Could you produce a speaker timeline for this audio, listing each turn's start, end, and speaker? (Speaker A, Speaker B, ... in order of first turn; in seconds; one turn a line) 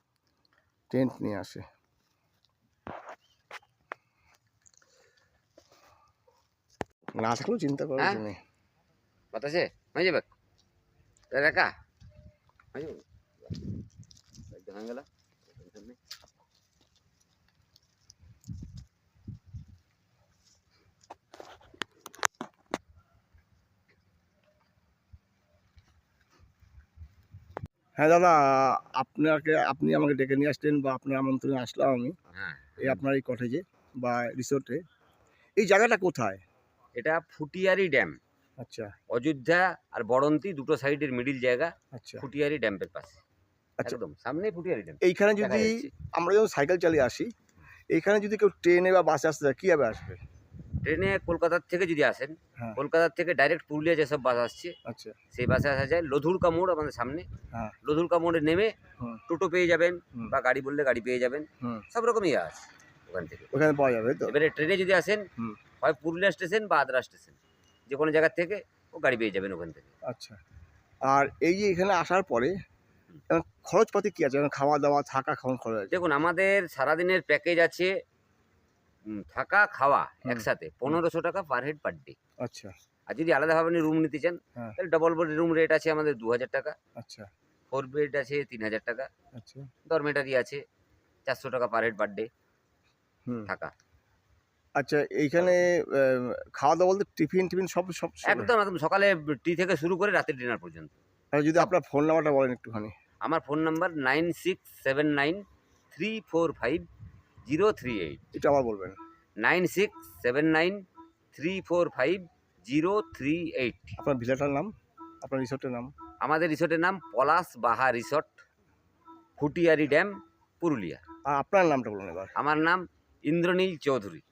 Speaker A: 0.9-1.6
Speaker A: 7.2-8.4
Speaker B: 8.0-8.2
Speaker B: 9.3-10.3
Speaker B: 11.3-11.7
Speaker B: 12.7-13.7
Speaker B: 14.5-16.0
Speaker A: 28.0-32.2
Speaker B: 32.3-33.0
Speaker A: 32.8-34.8
Speaker A: 35.6-36.4
Speaker B: 37.0-38.2
Speaker A: 38.6-38.9
Speaker B: 39.1-43.2
Speaker A: 41.9-42.2
Speaker B: 43.9-45.9
Speaker A: 45.0-47.3
Speaker A: 47.9-50.2
Speaker B: 50.8-54.8
Speaker A: 54.9-55.1
Speaker B: 55.3-57.3
Speaker B: 57.8-58.7
Speaker B: 59.3-63.5
Speaker A: 63.5-64.3
Speaker B: 64.3-65.3
Speaker B: 65.8-69.9
Speaker A: 70.1-70.4
Speaker A: 71.1-72.5
Speaker A: 73.3-76.0
Speaker B: 75.9-77.9
Speaker B: 79.1-82.2
Speaker A: 80.2-81.0
Speaker A: 82.4-82.7
Speaker B: 83.1-86.8
Speaker A: 87.0-87.3
Speaker B: 87.7-89.1
Speaker A: 89.3-89.7
Speaker B: 89.9-90.6
Speaker B: 91.2-92.3
Speaker B: 93.5-93.7
Speaker A: 94.8-98.5
Speaker B: 98.2-100.9
Speaker A: 101.3-102.9
Speaker B: 103.2-106.9
Speaker B: 107.5-108.2
Speaker A: 108.3-109.0
Speaker B: 109.4-110.8
Speaker B: 111.3-114.0
Speaker A: 114.0-114.7
Speaker A: 115.2-115.9
Speaker B: 116.2-118.4
Speaker B: 119.4-121.0
Speaker A: 121.3-122.3
Speaker B: 122.4-124.2